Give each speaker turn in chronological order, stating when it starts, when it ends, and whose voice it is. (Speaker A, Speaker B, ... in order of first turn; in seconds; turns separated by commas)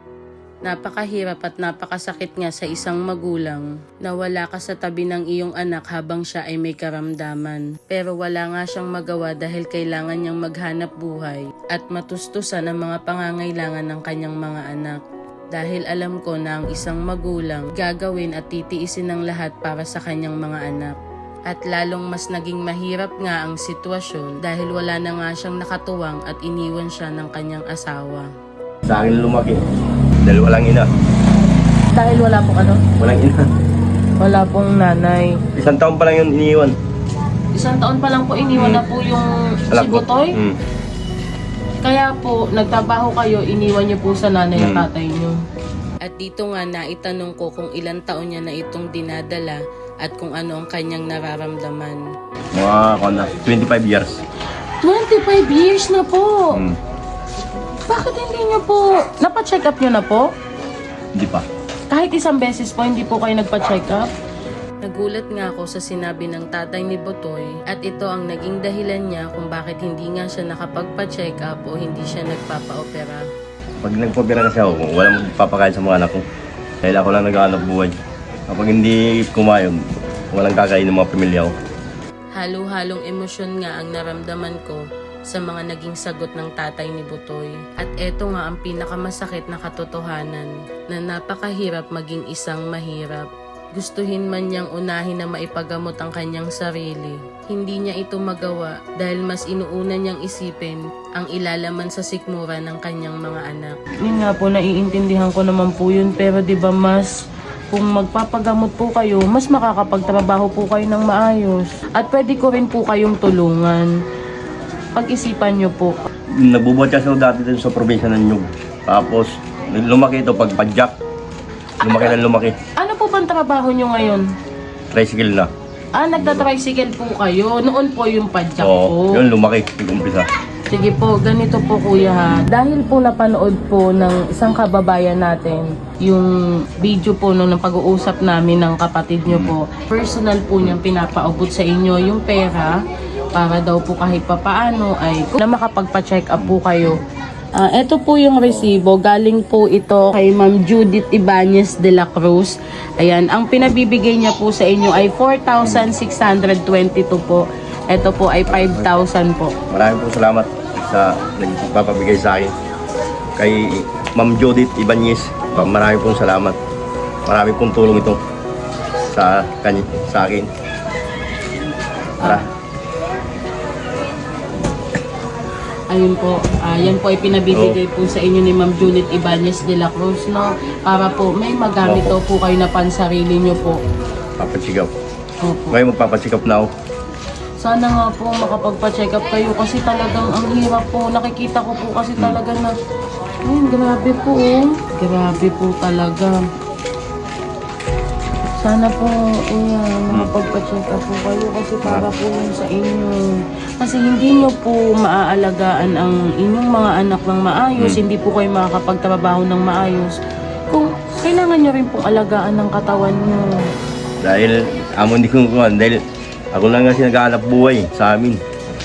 Speaker A: 0.6-15.0, Speaker A: 15.5-20.9, Speaker A: 21.5-28.3, Speaker B: 28.9-29.6, Speaker B: 30.2-30.9, Speaker A: 31.9-32.8, Speaker B: 33.0-33.5, Speaker A: 34.2-35.4, Speaker B: 35.5-36.7, Speaker A: 37.5-40.4, Speaker B: 38.5-38.8, Speaker B: 39.7-40.6, Speaker A: 41.8-45.4, Speaker B: 44.5-44.9, Speaker A: 46.0-52.0, Speaker B: 52.5-54.2, Speaker A: 54.8-56.6, Speaker B: 56.5-56.8, Speaker A: 57.9-60.3, Speaker B: 61.1-61.5, Speaker A: 61.9-64.1, Speaker A: 64.8-73.2, Speaker B: 73.8-76.2, Speaker B: 76.8-77.9, Speaker B: 78.5-79.8, Speaker B: 80.3-81.5, Speaker A: 82.3-107.2, Speaker A: 107.7-113.9, Speaker A: 114.9-116.0, Speaker B: 116.3-120.9, Speaker A: 121.8-122.2, Speaker B: 121.8-122.6, Speaker A: 122.7-124.3, Speaker B: 124.9-125.5, Speaker A: 125.9-129.2, Speaker B: 126.1-126.5, Speaker B: 128.6-130.3, Speaker A: 130.7-142.8, Speaker B: 139.3-139.5, Speaker A: 143.3-147.0, Speaker A: 147.5-159.5, Speaker B: 158.5-158.9, Speaker B: 159.7-162.5, Speaker B: 163.4-166.6, Speaker B: 167.3-168.2, Speaker B: 169.1-170.5, Speaker A: 172.2-172.5, Speaker A: 175.9-183.8, Speaker B: 177.5-177.8, Speaker B: 181.8-182.2, Speaker B: 184.4-184.9, Speaker A: 185.4-185.8, Speaker B: 185.7-186.7, Speaker A: 187.6-192.7, Speaker A: 193.4-196.4, Speaker A: 198.6-203.3, Speaker A: 203.8-210.2, Speaker B: 207.8-208.0, Speaker A: 210.7-213.6, Speaker B: 214.2-218.4